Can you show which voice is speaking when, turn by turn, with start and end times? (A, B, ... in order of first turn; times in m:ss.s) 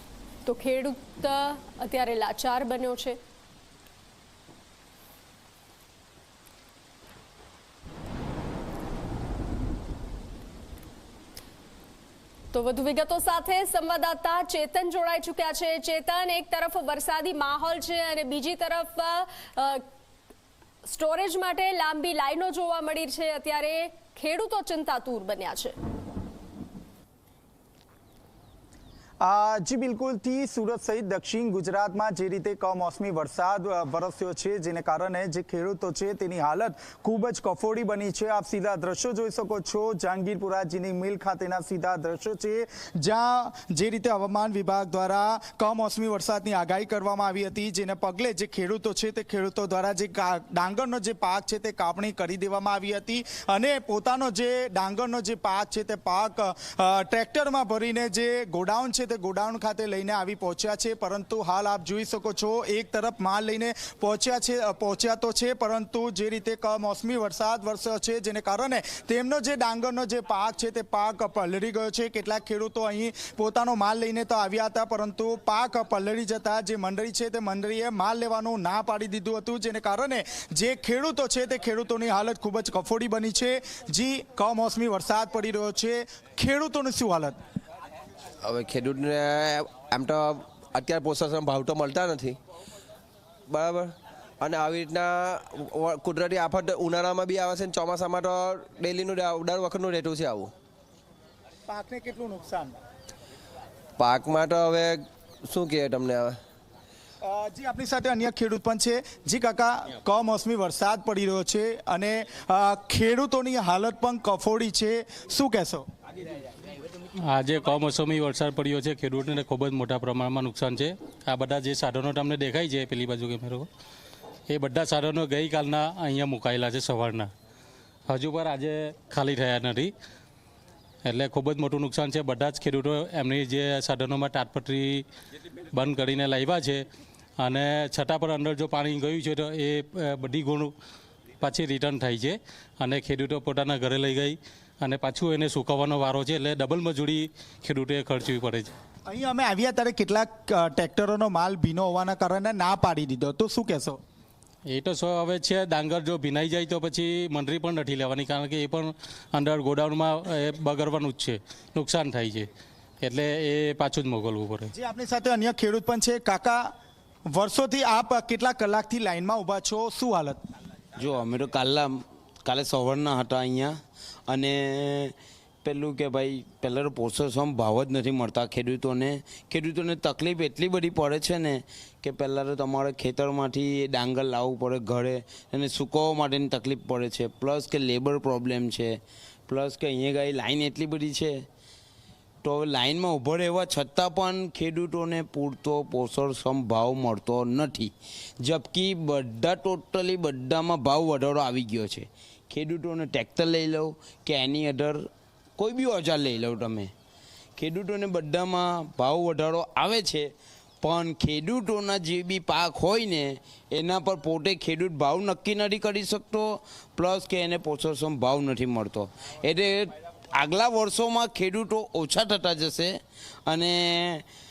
0:00.4-0:03.2 A
0:12.5-0:19.8 A
0:20.8-0:25.7 A
0:29.2-1:27.4 B
1:28.4-1:32.4 C
1:33.5-1:40.5 C
1:41.7-1:42.8 B
1:44.0-1:46.4 C
1:47.2-1:55.8 B
1:57.2-2:03.7 D
2:04.5-2:07.3 D
2:08.1-2:09.9 D
2:11.0-2:15.0 D
2:15.7-2:16.8 D
2:17.4-2:20.7 D
2:21.4-2:28.7 D
2:29.1-2:34.0 B
2:34.7-2:42.5 D
2:43.0-2:44.7 D
2:44.7-2:46.6 B
2:47.3-2:50.4 B
2:51.0-2:53.7 E
2:54.3-3:09.0 E
3:09.5-3:11.4 E
3:12.4-3:25.0 E
3:25.6-3:26.9 E
3:27.6-3:30.3 E
3:30.8-3:44.2 E